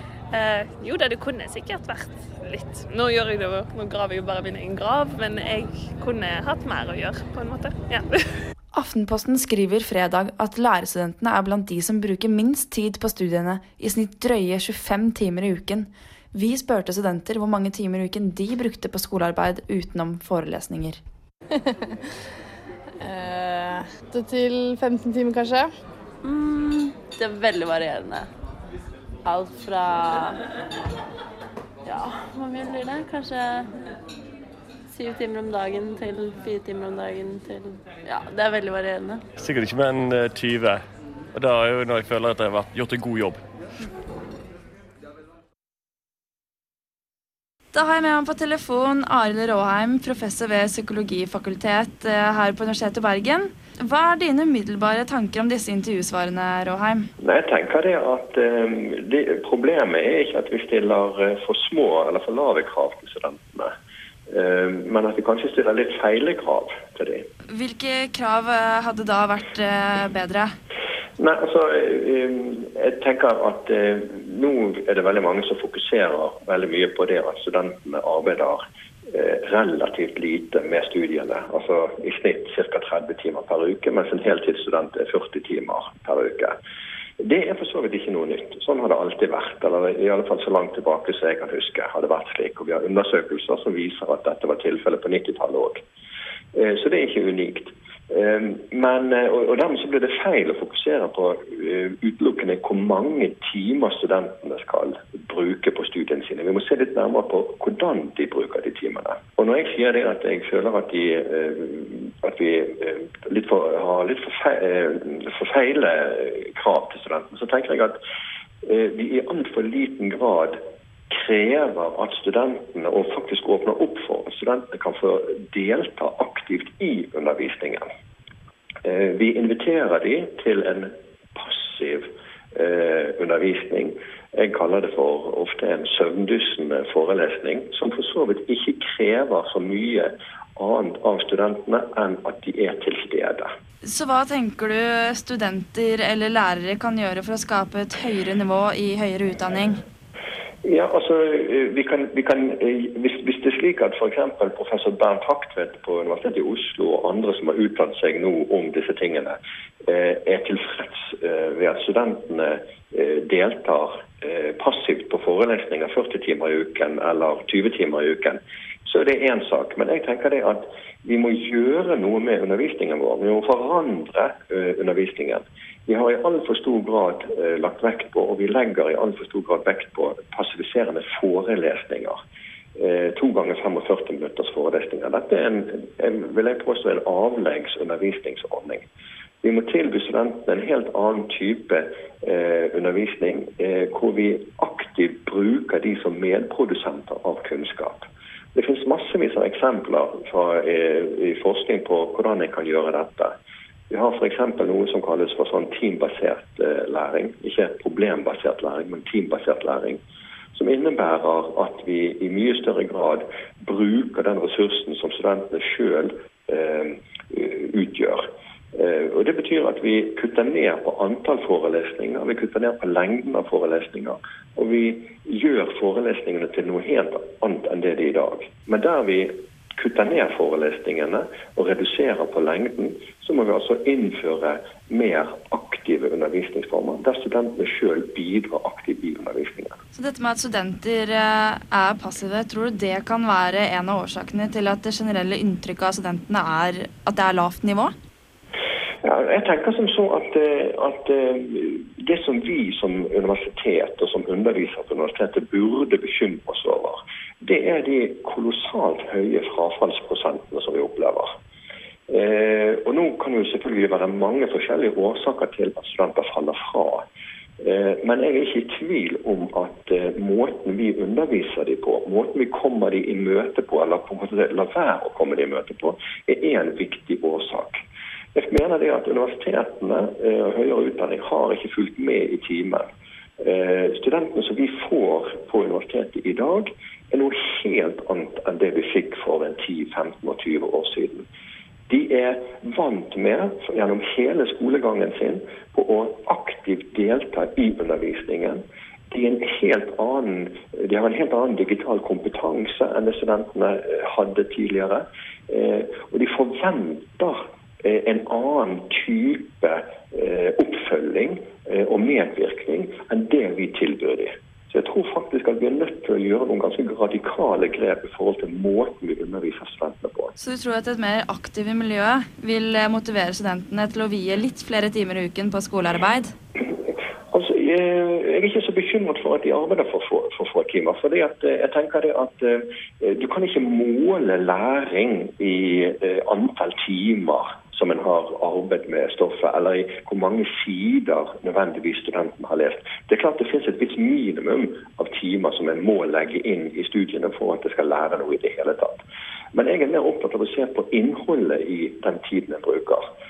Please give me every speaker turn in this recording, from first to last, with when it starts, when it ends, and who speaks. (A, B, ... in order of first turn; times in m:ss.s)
0:00.3-0:08.4 A
0:08.7-0:21.0 B
0:23.0-0:25.7 C
0:26.2-0:28.3 D
0:29.2-0:30.4 D
0:31.8-0:33.6 D
0:34.9-0:39.2 D
0:39.4-0:43.4 E
0:47.7-0:57.1 B
0:57.2-1:03.7 F
1:04.3-1:07.2 F
1:07.5-1:10.5 B
1:11.2-1:26.6 F
1:27.2-1:35.8 F
1:36.5-1:58.0 F
1:58.6-2:00.6 F
2:01.1-2:07.9 F
2:08.8-2:23.5 F
2:23.8-2:29.8 B
2:30.6-3:02.2 F
3:02.8-3:08.8 F
3:09.4-3:23.3 F
3:23.9-3:30.0 F
3:30.5-3:59.8 F
3:59.9-4:07.9 B
4:09.0-4:21.3 F
4:22.1-4:27.0 F
4:27.6-4:37.8 F
4:38.3-4:42.9 F
4:43.4-4:51.2 F
4:51.9-5:20.3 F
5:20.4-5:26.3 B
5:26.6-5:53.0 F